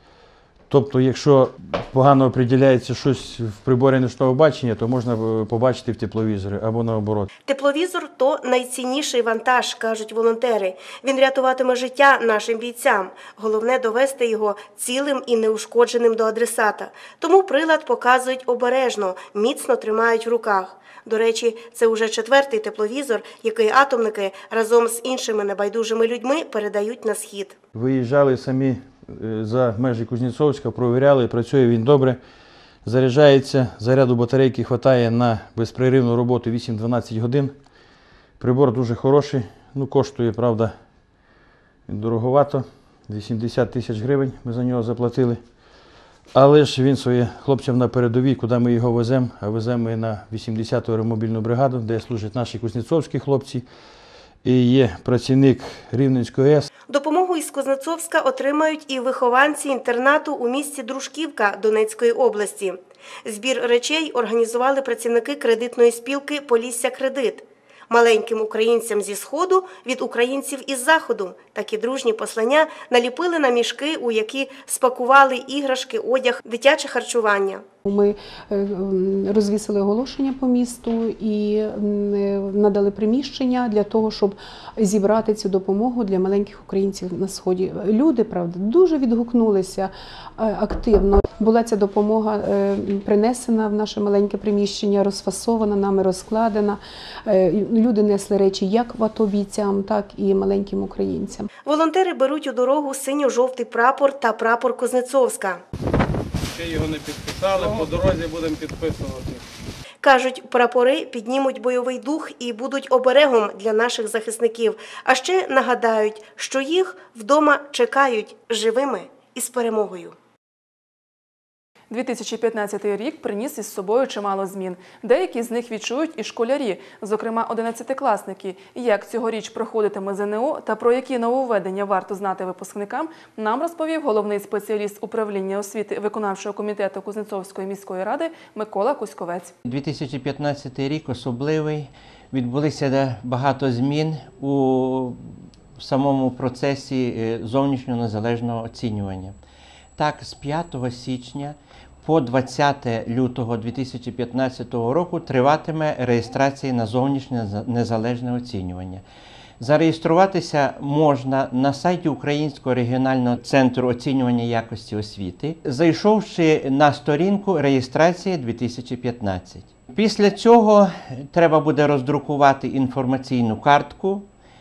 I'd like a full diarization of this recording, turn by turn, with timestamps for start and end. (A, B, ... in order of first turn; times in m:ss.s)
0:00.7-0:07.3 A
0:07.5-0:27.6 B
0:27.7-0:32.2 A
0:32.8-0:37.6 A
0:38.4-0:40.8 A
0:41.9-0:45.4 A
0:46.3-0:53.7 A
0:54.4-0:56.7 A
0:56.9-1:17.6 B
1:17.8-1:41.5 C
1:41.7-1:45.6 B
1:46.5-1:49.4 D
1:50.0-2:00.2 B
2:01.9-2:19.5 E
2:19.6-2:29.4 F
2:30.0-2:39.0 F
2:39.6-2:54.3 F